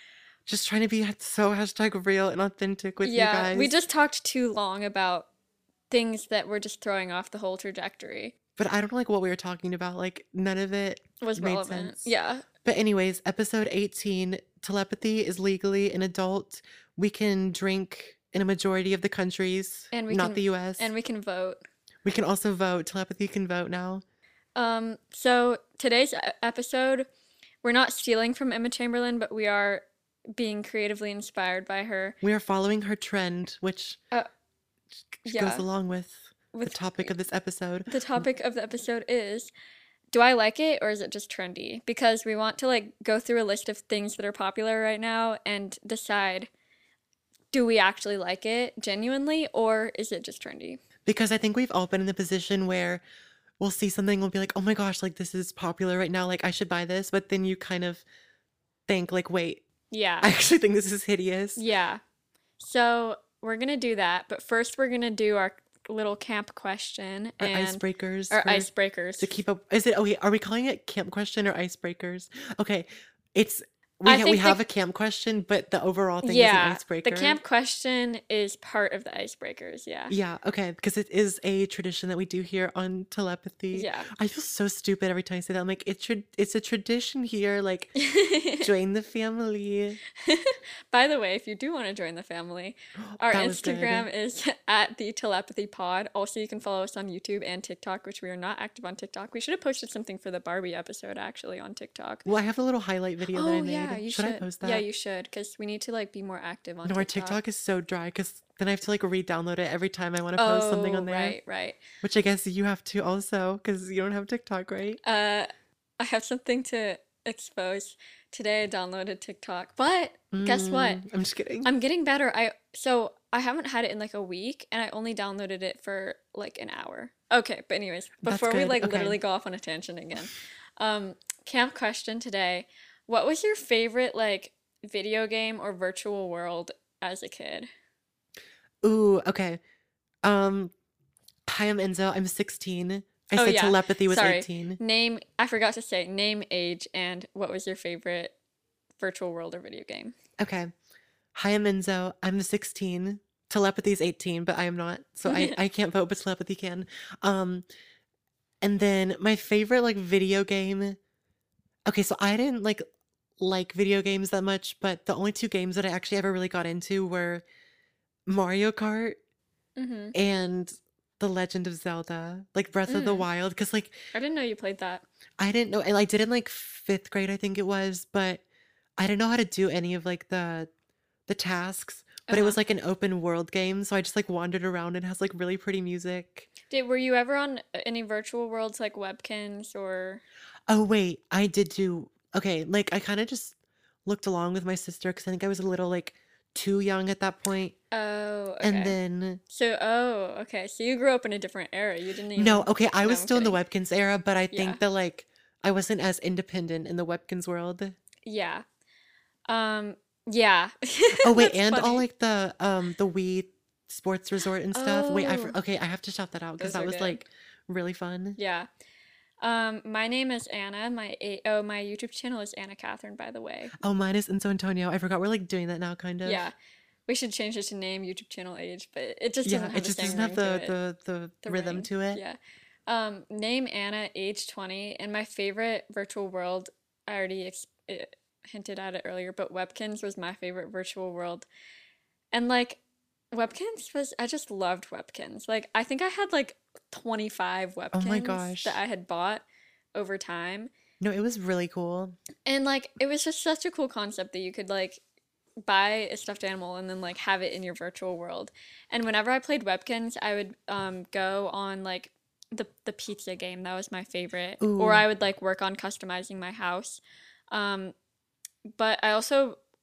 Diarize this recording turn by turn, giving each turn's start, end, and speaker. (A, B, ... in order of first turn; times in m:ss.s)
0:00.5-0:03.7 A
0:03.0-0:05.3 B
0:05.9-0:08.4 B
0:08.6-0:12.1 A
0:11.2-0:12.4 B
0:12.6-0:20.9 A
0:19.9-0:21.6 B
0:22.0-0:24.0 A
0:24.6-0:27.1 B
0:27.6-0:32.2 B
0:32.2-0:34.0 A
0:35.2-0:38.2 A
0:35.2-0:35.7 B
0:36.5-0:37.1 B
0:37.9-0:39.5 B
0:40.1-0:46.5 B
0:47.5-0:50.8 B
0:51.1-0:53.0 A
0:53.6-0:58.0 A
0:58.9-0:59.6 A
0:59.9-1:00.3 B
1:00.2-1:01.6 A
1:01.6-1:02.0 B
1:02.6-1:09.3 B
1:07.4-1:08.7 A
1:09.2-1:17.4 A
1:14.1-1:14.6 B
1:16.2-1:20.1 B
1:20.1-1:27.9 A
1:23.7-1:24.1 B
1:28.0-1:28.7 B
1:28.6-1:30.0 A
1:30.2-1:42.3 B
1:33.1-1:34.1 A
1:42.3-1:44.8 A
1:43.3-1:47.4 B
1:46.9-1:51.4 A
1:50.4-1:51.8 B
1:52.0-1:55.0 A
1:55.0-1:55.5 B
1:56.0-2:01.0 B
2:00.3-2:01.7 A
2:01.6-2:17.7 B
2:08.2-2:09.2 A
2:18.8-2:19.6 A
2:20.2-2:20.7 A
2:21.5-2:24.8 A
2:23.4-2:28.3 B
2:29.0-2:30.2 B
2:30.4-2:30.7 A
2:31.3-2:37.6 A
2:35.3-2:35.6 B
2:38.6-2:41.0 A
2:41.9-2:42.8 A
2:43.4-2:47.4 A
2:48.3-2:49.2 A
2:49.8-2:50.2 B
2:50.1-2:54.1 A
2:52.9-2:53.3 B
2:54.1-2:55.0 B
2:55.4-2:58.4 A
2:59.0-3:00.7 A
3:01.3-3:06.5 A
3:02.3-3:02.6 B
3:06.7-3:10.2 B
3:10.7-3:17.8 A
3:17.9-3:19.0 B
3:18.6-3:19.4 A
3:19.5-3:23.6 B
3:22.4-3:28.0 A
3:24.5-3:24.8 B
3:28.3-3:28.6 B
3:29.5-3:32.0 B
3:31.2-3:38.4 A
3:34.7-3:35.6 B
3:36.6-3:37.2 B
3:38.4-3:38.7 B
3:39.4-3:43.7 B
3:43.8-3:46.5 A
3:46.2-3:46.5 B
3:47.1-3:50.8 B
3:49.4-3:52.2 A
3:51.4-3:52.4 B
3:52.9-4:01.5 B
4:02.3-4:02.8 B
4:03.3-4:10.7 B
4:07.9-4:08.8 A
4:11.0-4:12.2 A
4:12.5-4:15.0 B
4:15.6-4:28.0 B
4:24.6-4:25.1 A
4:28.8-4:29.6 B